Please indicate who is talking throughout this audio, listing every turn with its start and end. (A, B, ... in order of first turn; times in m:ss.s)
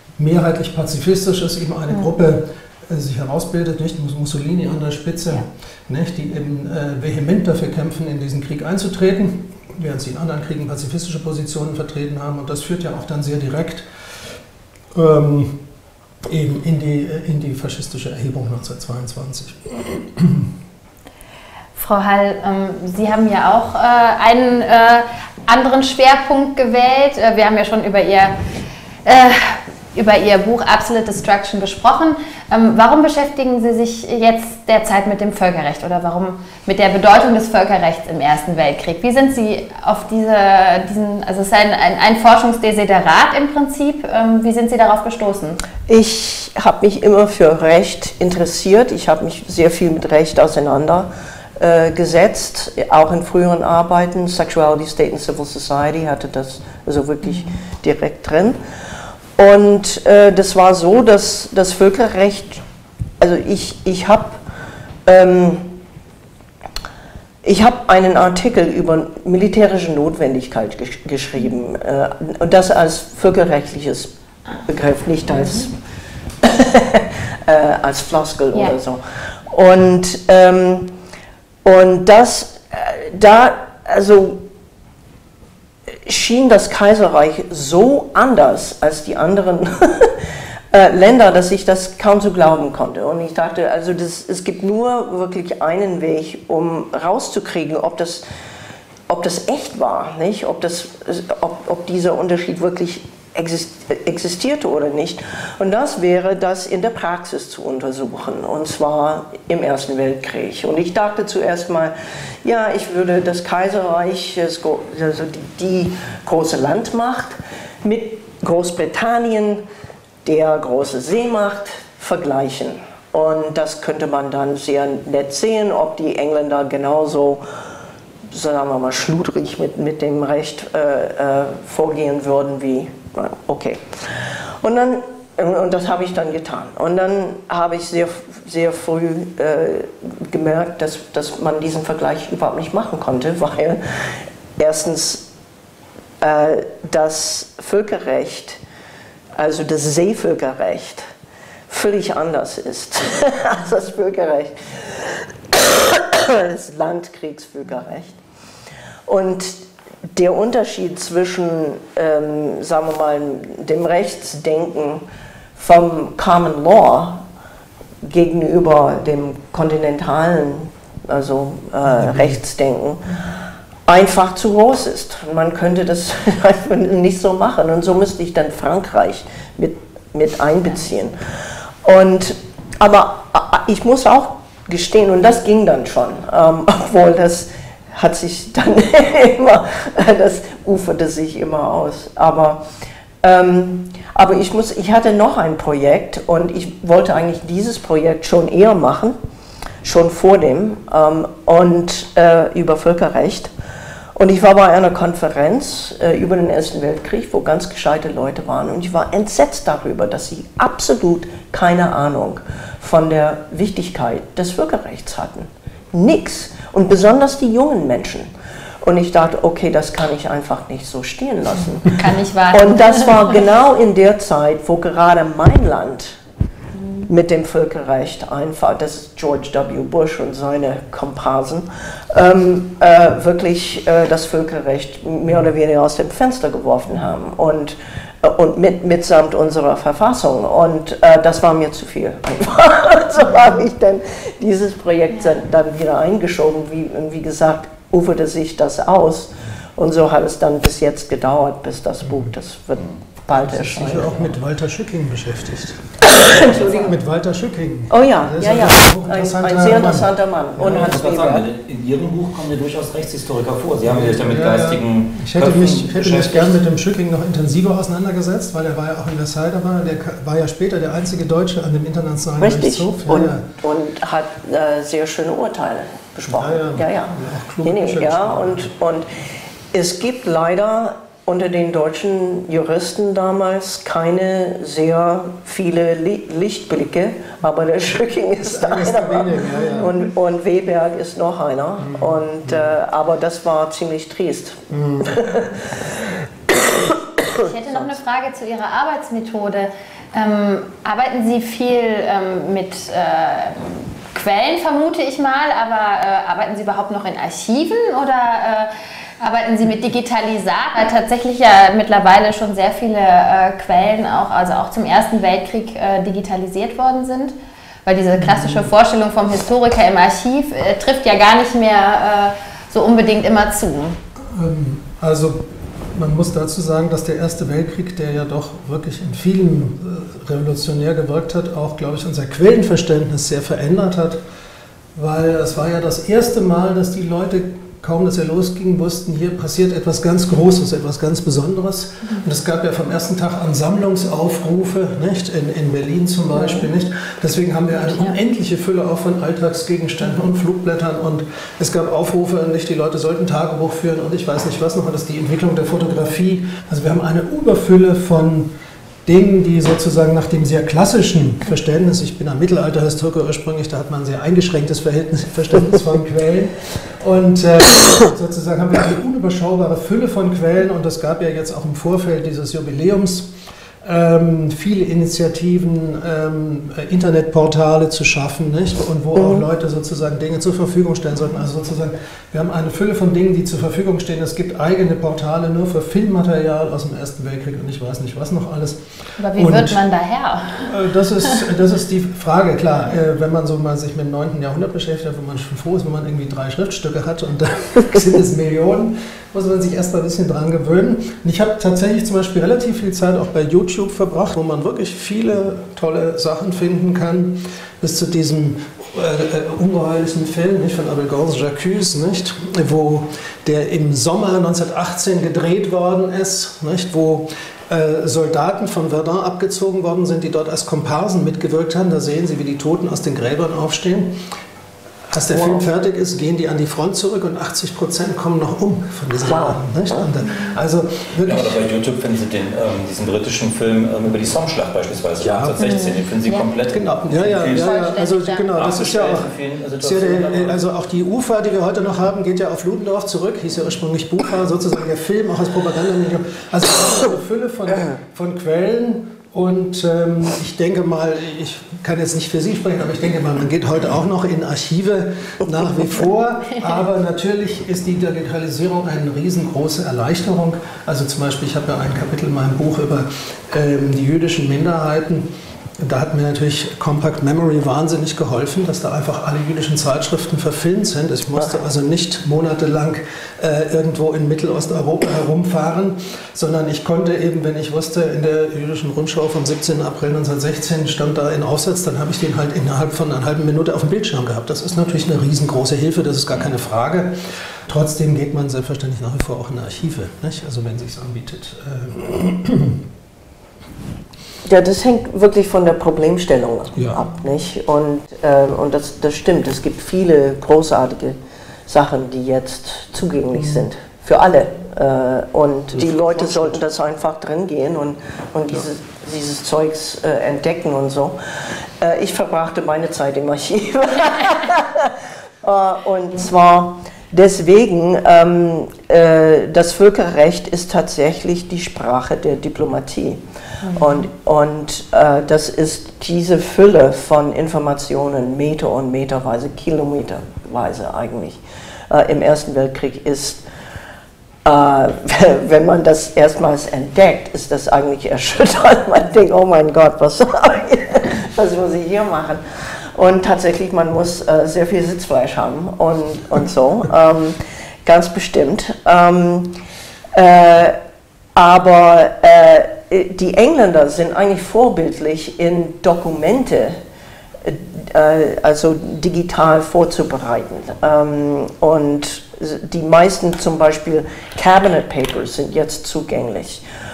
0:00.2-0:13.9 A
0:14.9-0:15.6 A
0:16.2-0:20.5 A
0:21.8-0:28.4 B
0:29.0-0:45.6 B
0:45.9-0:58.6 C
0:59.4-1:02.6 C
1:03.2-1:04.4 C
1:05.1-1:05.8 C
1:07.4-1:14.1 C
1:14.6-1:15.7 C
1:16.4-1:20.9 C
1:21.6-1:24.4 C
1:26.1-1:38.2 C
1:39.1-1:59.6 C
2:00.2-2:07.4 C
2:08.3-2:25.3 C
2:26.2-2:28.6 C
2:29.4-2:31.1 C
2:31.7-2:38.1 C
2:39.1-2:39.6 C
2:40.1-2:45.0 C
2:45.6-2:47.2 C
2:48.0-3:01.2 C
2:51.9-2:52.3 A
3:01.8-3:12.6 C
3:13.2-3:19.2 C
3:19.8-3:23.5 C
3:24.2-3:38.3 C
3:38.8-3:46.2 C
3:41.9-3:43.2 B
3:47.1-4:14.4 C
4:13.3-4:20.9 A
4:16.0-4:16.9 C
4:17.9-4:21.4 C
4:20.6-4:26.6 D
4:23.9-4:33.4 A
4:32.4-4:39.1 C
4:36.3-4:38.7 A
4:39.7-4:57.9 C
4:48.4-4:49.9 A
4:51.8-4:52.7 A
4:54.7-4:55.3 A
4:57.4-5:17.3 B
5:17.9-5:24.0 B
5:18.2-5:18.7 A
5:24.2-5:34.2 A
5:35.0-5:58.5 A
5:59.1-6:13.3 A
6:13.8-6:29.8 A
6:19.1-6:19.4 C
6:29.2-6:30.7 B
6:30.6-7:04.2 A
7:05.1-7:11.6 A
7:05.3-7:05.6 C
7:09.3-7:10.1 C
7:11.2-7:17.7 D
7:15.2-7:15.6 A
7:15.6-7:16.4 B
7:16.7-8:12.8 A
7:17.5-7:18.5 B
7:18.5-7:20.6 D
8:14.4-8:31.2 C
8:16.8-8:17.1 A
8:23.4-8:23.6 A
8:25.7-8:26.6 A
8:31.8-8:51.4 C
8:51.9-8:53.4 C
8:54.4-9:09.6 C
9:10.1-9:10.8 C
9:11.4-9:16.8 C
9:17.4-9:26.6 C